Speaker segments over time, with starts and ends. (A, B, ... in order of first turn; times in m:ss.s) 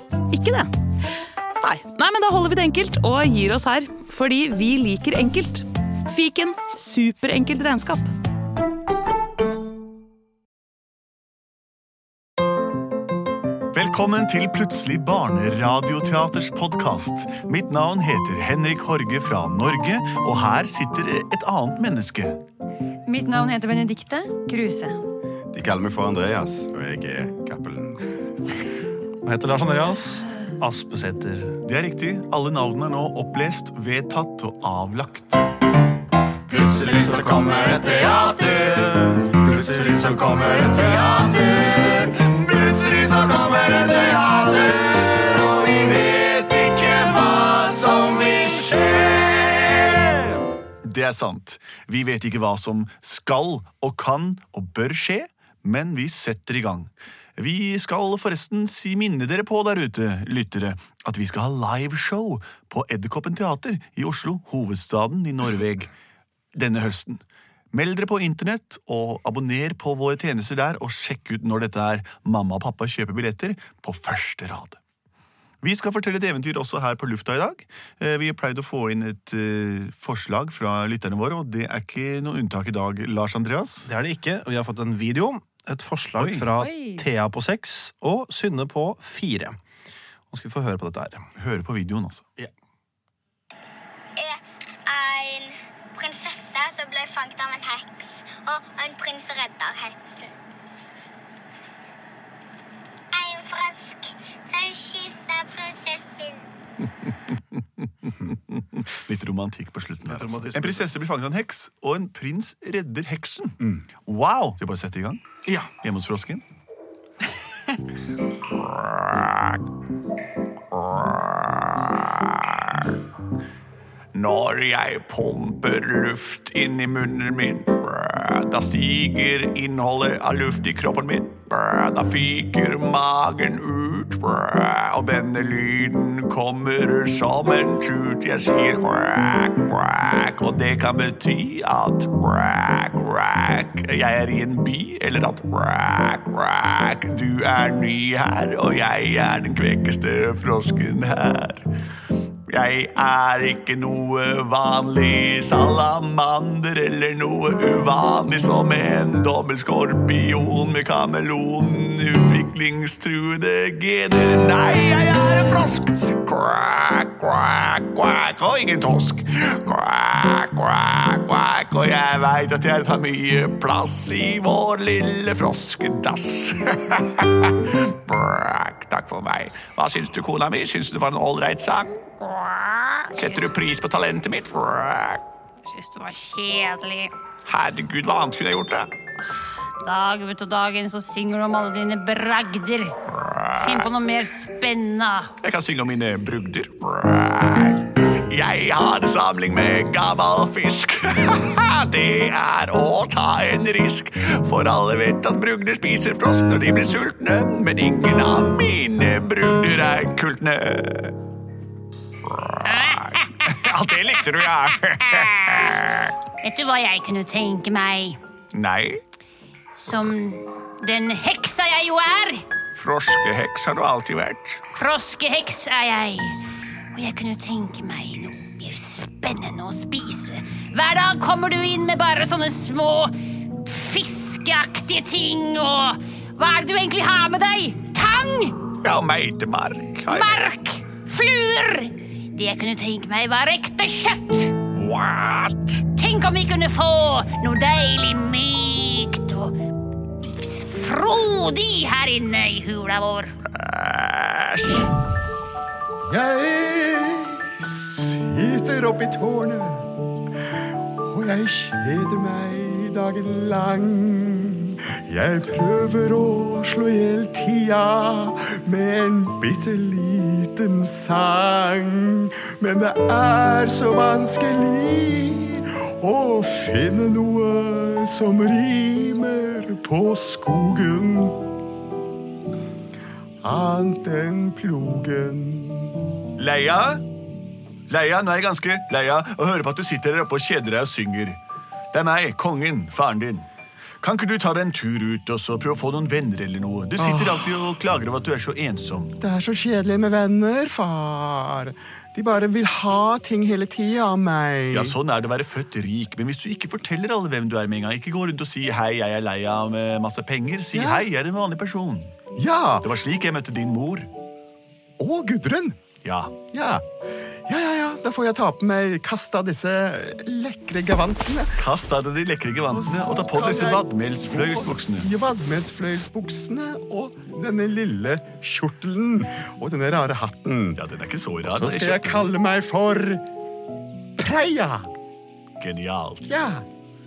0:00.3-0:00.7 A
0:01.6-0:08.1 A
0:13.7-0:22.4 B
0:23.1-0:24.9 C
0:25.5-0:28.0 D
0:29.2-0:31.5 E
0:31.6-0:35.4 B
0:36.5-0:49.9 D
0:39.3-0:39.9 E
0:50.8-1:05.9 B
1:06.5-1:14.8 B
1:15.6-1:23.9 B
1:23.8-1:29.6 E
1:30.3-1:31.2 E
1:31.4-1:32.2 B
1:34.2-1:40.3 F
1:43.1-1:46.4 F
1:48.0-1:56.4 B
1:50.0-1:50.9 E
1:58.6-1:59.6 B
2:00.7-2:03.0 B
2:04.1-2:31.7 B
2:32.5-3:02.0 B
3:02.1-3:03.5 C
3:03.1-3:05.2 B
3:05.6-3:07.1 C
3:07.4-3:08.9 B
3:09.8-3:12.9 C
3:13.1-3:13.9 B
3:13.6-3:15.3 C
3:15.4-3:31.2 B
3:32.2-3:36.1 B
3:32.6-3:33.7 C
3:35.0-3:35.6 C
3:36.4-3:38.2 C
3:38.5-3:39.0 B
3:39.7-3:42.4 C
3:42.7-3:44.6 B
3:44.7-3:46.4 C
3:46.9-3:58.6 C
3:58.8-4:00.5 B
4:00.1-4:04.6 C
4:04.7-4:05.8 B
4:05.9-4:09.6 C
4:10.2-4:13.3 C
4:13.5-4:14.9 B
4:16.1-4:19.9 D
4:21.0-4:41.4 D
4:43.4-4:46.1 D
4:46.4-4:47.0 B
4:47.9-4:51.4 B
4:51.9-4:53.5 B
4:54.0-4:59.2 B
4:57.0-4:57.6 D
4:59.2-5:05.0 D
5:04.7-5:12.1 B
5:10.7-5:11.1 D
5:12.3-5:12.8 D
5:12.8-5:14.1 B
5:15.0-5:15.8 D
5:16.0-5:16.3 B
5:16.5-5:16.8 D
5:17.5-5:21.6 D
5:21.6-5:25.1 B
5:22.7-5:30.8 D
5:30.8-5:32.2 B
5:31.4-5:33.2 D
5:34.2-5:34.9 D
5:35.6-5:36.3 B
5:36.2-5:36.6 D